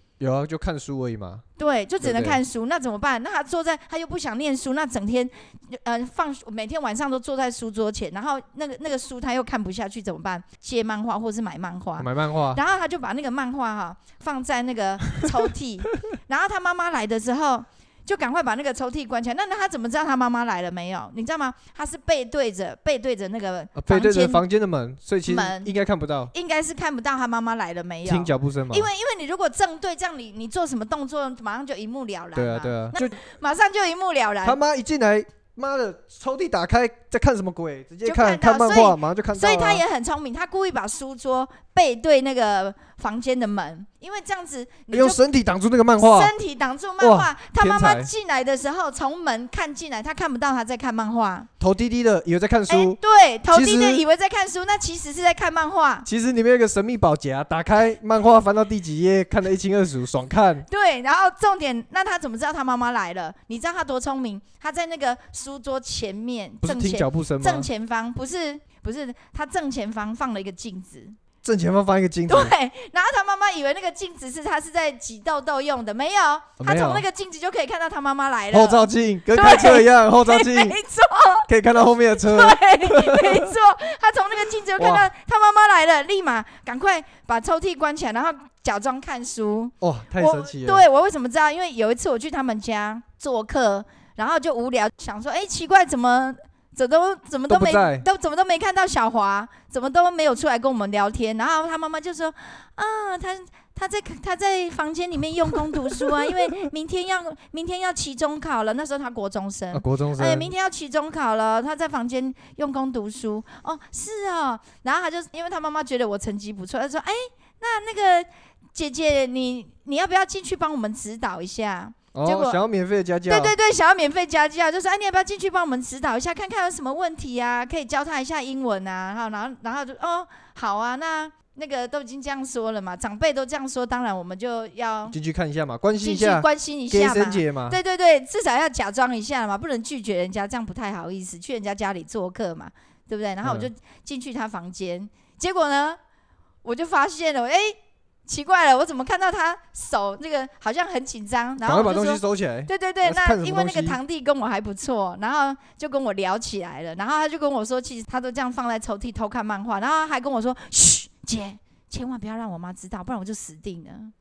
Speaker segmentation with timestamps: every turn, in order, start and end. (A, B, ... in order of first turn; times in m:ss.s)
0:00.2-0:01.4 A
0:01.6-0:24.4 B
0:02.0-0:02.4 A
0:12.0-0:12.6 A
0:23.8-0:26.3 A
0:25.3-0:25.7 B
0:26.3-0:34.6 B
0:28.1-0:28.9 A
0:32.4-0:33.2 A
0:34.4-0:39.8 A
0:38.0-0:45.2 B
0:44.9-0:46.3 A
0:46.0-0:51.5 B
0:47.0-0:48.1 A
0:51.6-0:53.0 A
0:52.7-0:56.1 B
0:53.5-0:54.0 A
0:56.1-1:00.7 A
1:00.7-1:11.2 B
1:06.6-1:07.7 A
1:11.4-1:12.5 A
1:12.3-1:21.5 B
1:16.6-1:17.1 A
1:18.5-1:20.8 A
1:21.5-1:23.5 A
1:22.2-2:02.6 B
1:24.8-1:25.1 A
1:29.8-1:30.8 A
1:37.5-1:38.1 A
1:49.7-1:50.5 A
2:02.1-2:03.5 A
2:03.3-2:15.2 B
2:15.1-2:17.8 A
2:16.0-2:26.0 B
2:23.4-2:23.7 A
2:26.6-2:44.1 B
2:31.6-2:34.0 A